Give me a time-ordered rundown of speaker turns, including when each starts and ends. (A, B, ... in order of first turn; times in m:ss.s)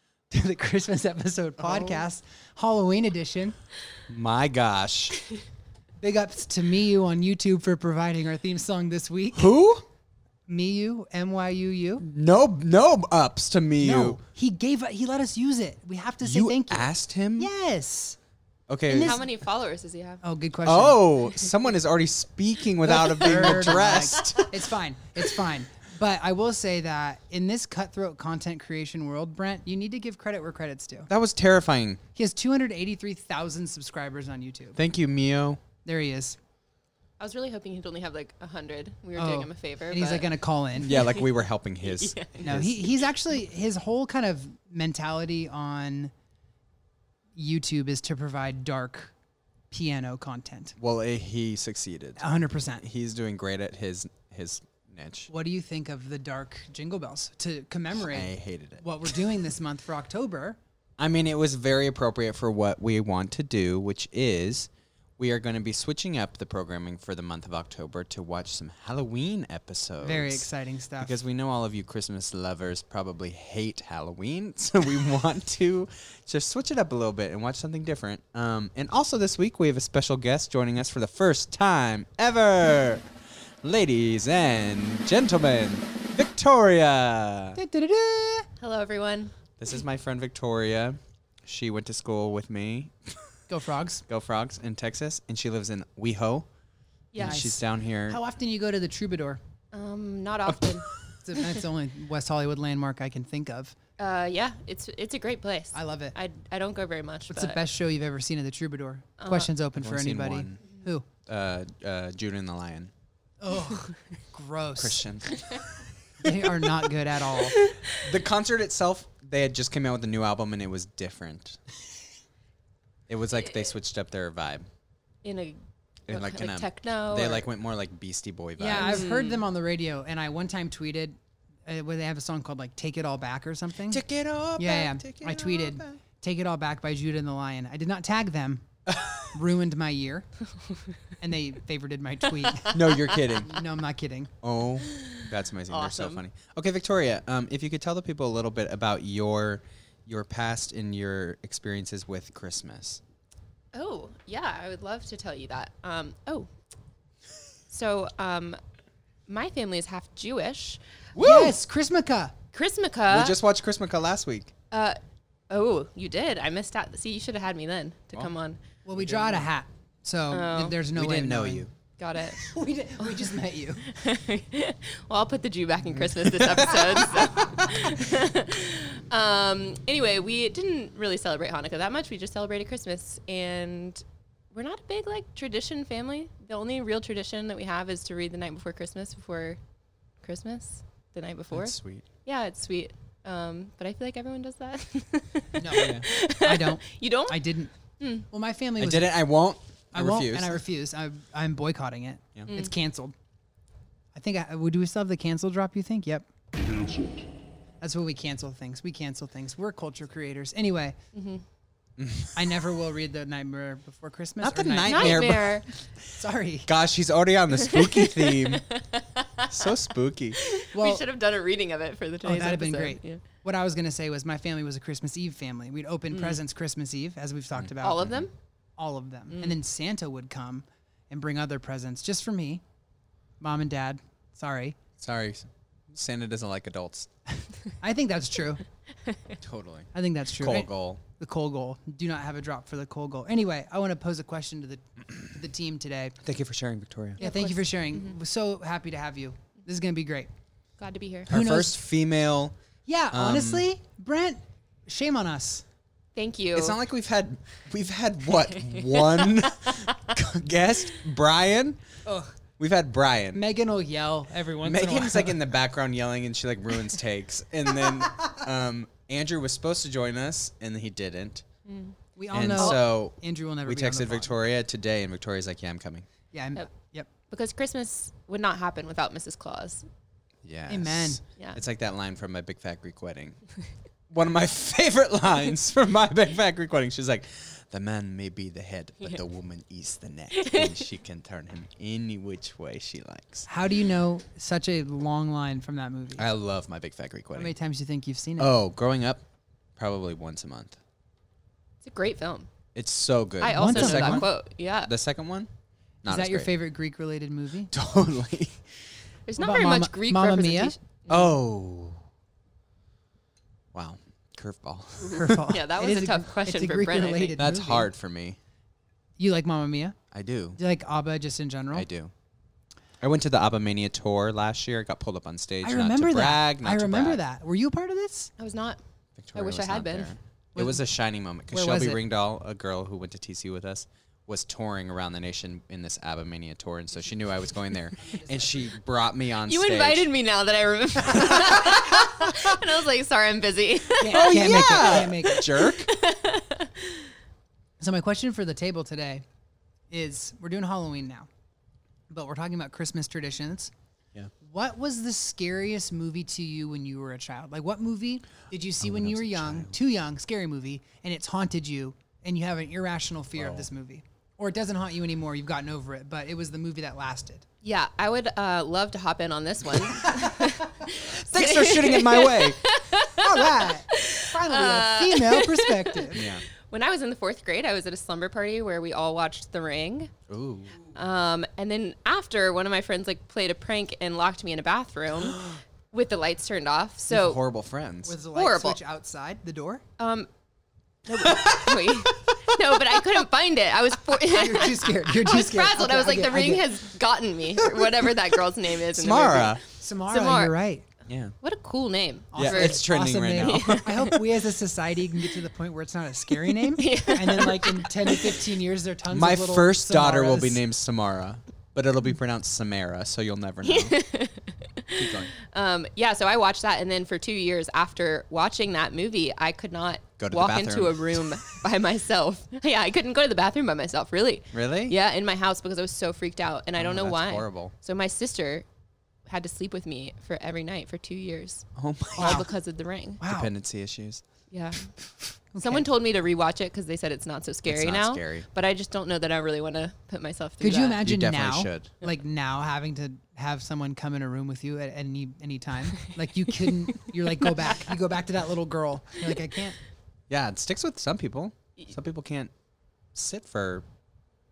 0:00.3-0:03.6 A
0:01.7-0:02.0 B
0:04.1-0:05.2 B
0:06.0-0:09.6 A
0:09.4-0:09.8 B
0:10.5-0:12.0 A
0:12.0-0:14.2 B
0:13.8-0:18.2 A
0:16.2-0:17.5 B
0:18.7-0:19.2 B
0:18.9-0:19.2 A
0:18.9-0:20.2 C
0:20.2-0:21.1 A
0:20.6-0:24.5 B
0:22.8-0:31.1 A
0:23.5-0:24.4 C
0:31.1-0:32.0 B
0:32.2-0:34.8 A
0:34.8-0:35.6 B
0:35.8-0:36.4 A
0:37.2-0:40.3 C
0:39.2-0:41.0 A
0:40.8-0:42.8 B
0:40.9-0:41.3 C
0:41.8-0:42.6 C
0:42.4-0:46.1 A
0:47.4-0:49.1 A
0:49.7-0:50.8 A
0:50.8-0:55.3 B
0:52.2-0:52.8 A
0:55.3-1:00.6 A
0:58.0-0:59.2 B
1:01.0-1:23.1 B
1:10.0-1:11.2 A
1:23.6-1:27.6 B
1:27.6-1:28.5 A
1:28.6-1:29.3 C
1:29.6-1:33.3 B
1:33.5-1:34.0 A
1:34.1-1:36.5 B
1:37.1-1:37.5 C
1:37.2-1:38.2 B
1:37.2-1:39.4 A
1:39.7-1:40.9 C
1:40.5-1:41.2 B
1:41.2-1:43.8 A
1:44.0-1:47.6 C
1:45.7-1:46.2 A
1:47.3-1:51.1 A
1:49.2-1:49.5 C
1:49.8-1:50.6 B
1:51.2-1:52.9 B
1:53.4-1:55.0 A
1:54.8-1:55.4 B
1:56.2-1:57.6 A
1:57.3-1:58.0 C
1:58.0-2:01.6 B
2:03.1-2:04.7 B
2:05.2-2:07.5 C
2:06.1-2:09.1 B
2:08.6-2:14.0 A
2:08.7-2:09.5 C
2:13.9-2:16.0 B
2:14.6-2:18.7 A
2:18.9-2:19.4 B
2:19.3-2:20.3 A
2:21.2-2:24.3 A
2:22.7-2:23.6 B
2:24.4-2:33.0 B
2:24.9-2:26.2 C
2:33.7-2:36.5 C
2:37.7-2:38.6 C
2:39.3-2:40.8 C
2:41.2-2:41.6 B
2:41.2-2:42.4 A
2:42.5-2:43.4 C
2:43.1-2:44.5 B
2:44.7-2:45.0 C
2:45.5-2:48.6 C
2:48.8-2:51.7 A
2:49.0-2:49.5 B
2:50.3-2:50.8 C
2:50.9-2:51.7 B
2:52.0-2:52.4 C
2:52.4-2:53.9 A
2:53.0-3:09.6 C
2:56.0-2:57.3 B
3:10.2-3:18.3 C
3:11.5-3:12.1 B
3:15.5-3:17.7 A
3:15.7-3:16.1 B
3:18.3-3:19.2 A
3:18.8-3:20.6 B
3:19.9-3:23.2 A
3:24.1-3:26.3 A
3:27.8-3:31.0 A
3:31.1-3:31.4 C
3:32.0-3:32.6 B
3:32.4-3:35.5 A
3:34.4-3:35.6 B
3:34.8-3:35.6 C
3:36.0-3:36.7 A
3:36.7-3:38.7 B
3:37.7-3:39.7 C
3:39.5-3:40.4 B
3:40.4-3:43.2 C
3:40.7-3:41.1 A
3:42.2-3:48.2 A
3:46.1-3:46.4 C
3:47.6-3:48.3 B
3:47.8-3:48.3 C
3:48.8-3:52.6 A
3:49.3-3:49.6 C
3:53.4-3:54.8 A
3:55.0-3:57.1 B
3:57.8-3:58.6 A
3:59.1-3:59.4 C
3:59.4-4:01.0 B
3:59.9-4:06.2 A
4:06.2-4:07.2 B
4:07.2-4:10.3 A
4:07.2-4:08.2 C
4:10.8-4:11.3 C
4:11.3-4:12.6 B
4:11.3-4:11.8 A
4:12.9-4:15.6 A
4:13.1-4:13.7 B
4:16.2-4:16.8 C
4:16.5-4:21.8 B
4:18.6-4:19.7 C
4:22.1-4:22.4 A
4:22.6-4:23.4 B
4:23.3-4:25.4 A
4:24.6-4:31.4 B
4:31.7-4:32.0 C
4:32.2-4:34.3 A
4:32.3-4:36.1 B
4:36.3-4:37.1 A
4:37.3-4:39.9 C
4:40.4-4:43.4 B
4:40.7-4:41.2 A
4:44.1-4:53.5 B
4:50.3-4:50.8 C
4:53.5-4:56.3 A
4:56.2-4:57.5 B
4:57.3-4:58.5 A
4:58.4-4:59.2 B
4:59.8-5:00.8 B
5:01.8-5:02.5 C
5:02.8-5:05.5 B
5:03.4-5:04.9 C
5:03.5-5:04.3 A
5:06.0-5:06.5 B
5:06.1-5:07.7 A
5:07.7-5:08.6 B
5:09.3-5:11.4 C
5:09.4-5:10.7 A
5:11.1-5:12.0 B
5:13.7-5:15.4 B
5:15.0-5:17.4 C
5:15.1-5:17.9 A
5:17.4-5:18.4 B
5:19.2-5:20.0 A
5:20.1-5:20.6 B
5:20.6-5:21.9 A
5:21.7-5:22.1 B
5:23.0-5:27.2 B
5:25.6-5:28.3 A
5:28.4-5:28.8 C
5:29.2-5:40.1 B
5:29.4-5:30.1 C
5:30.6-5:30.8 A
5:31.5-5:32.0 A
5:38.0-5:38.8 A
5:39.5-5:47.1 C
5:41.2-5:41.8 B
5:44.0-5:45.5 A
5:44.1-5:45.9 B
5:47.8-5:49.2 A
5:49.9-5:51.3 A
5:52.1-5:53.7 A
5:54.4-6:07.5 A
5:58.8-5:59.8 B
6:03.4-6:03.7 B
6:07.6-6:16.1 C
6:11.0-6:12.6 B
6:13.1-6:16.3 A
6:16.1-6:16.4 B
6:16.7-6:20.1 C
6:20.3-6:20.8 B
6:21.0-6:27.4 C
6:25.3-6:25.6 B
6:27.1-6:28.2 B
6:28.1-6:29.8 A
6:28.3-6:28.8 C
6:30.0-6:30.3 C
6:31.1-6:40.6 C
6:31.2-6:32.3 B
6:34.1-6:36.8 A
6:38.9-6:39.6 B
6:39.7-6:40.9 A
6:41.1-6:41.4 B
6:41.4-6:44.2 C
6:42.3-6:50.6 A
6:42.4-6:44.1 B
6:46.5-6:48.4 C
6:49.1-6:54.0 B
6:53.6-7:08.7 C
6:55.0-6:55.3 B
7:00.2-7:01.4 B
7:04.5-7:05.0 B
7:06.8-7:07.7 B
7:09.3-7:13.2 C
7:11.8-7:12.5 B
7:12.2-7:12.5 A
7:13.2-7:13.5 A
7:13.2-7:14.2 B
7:14.5-7:14.9 C
7:15.5-7:15.9 A
7:15.6-7:21.0 C
7:17.7-7:18.5 B
7:20.6-7:29.8 A
7:21.0-7:21.9 B
7:30.3-7:32.5 B
7:33.1-7:33.9 B